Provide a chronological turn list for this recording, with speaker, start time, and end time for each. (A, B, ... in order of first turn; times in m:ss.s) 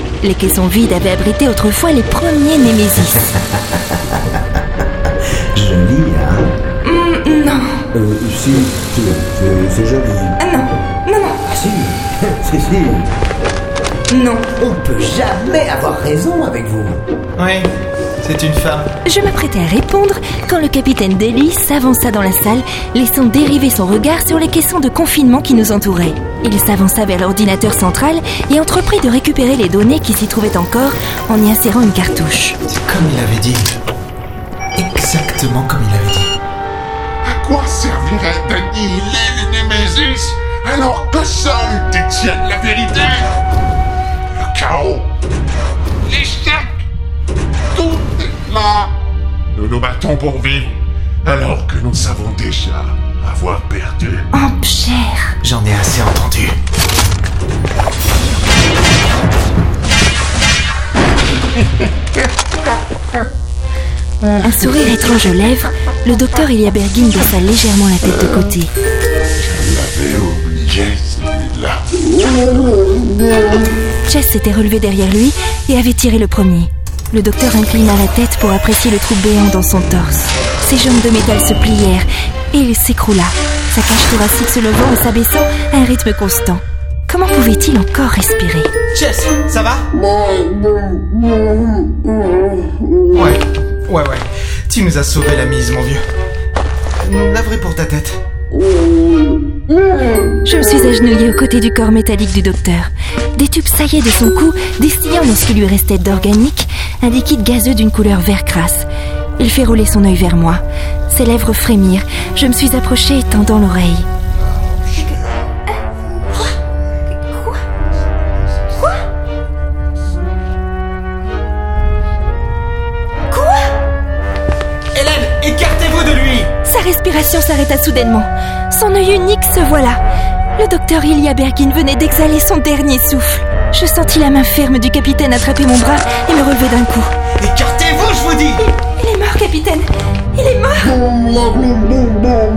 0:00.2-0:03.2 A
0:05.5-0:06.5 B
0:06.8-0:07.8 A
0:07.9-0:10.4 B
0:10.4-0:11.4 A
0:11.4-0:13.1 B
0:14.1-0:14.4 A
0:14.5-0:17.0 B
0:17.4-0:17.7 C
0:18.2-0:18.9 C
0:19.0-0:32.6 A
0:32.6-0:33.7 C
0:34.8-0:36.3 C
0:37.2-0:43.3 D
0:44.3-0:45.1 D
0:46.0-0:46.7 D
0:47.7-0:48.9 D
0:49.5-0:54.3 D
0:54.3-0:55.3 A
0:55.4-0:56.6 C
1:04.4-1:08.7 A
1:09.4-1:12.7 D
1:14.1-1:28.7 A
1:28.9-1:29.8 C
1:33.1-1:36.0 C
1:37.0-1:38.2 C
1:40.4-1:48.9 A
1:49.4-1:54.1 A
1:56.3-1:56.6 A
1:57.1-1:57.6 A
2:03.3-2:03.6 A
2:04.9-2:06.5 C
2:06.6-2:10.0 A
2:10.6-2:17.1 A
2:17.4-2:18.6 C
2:18.8-2:21.0 A
2:21.2-2:22.3 B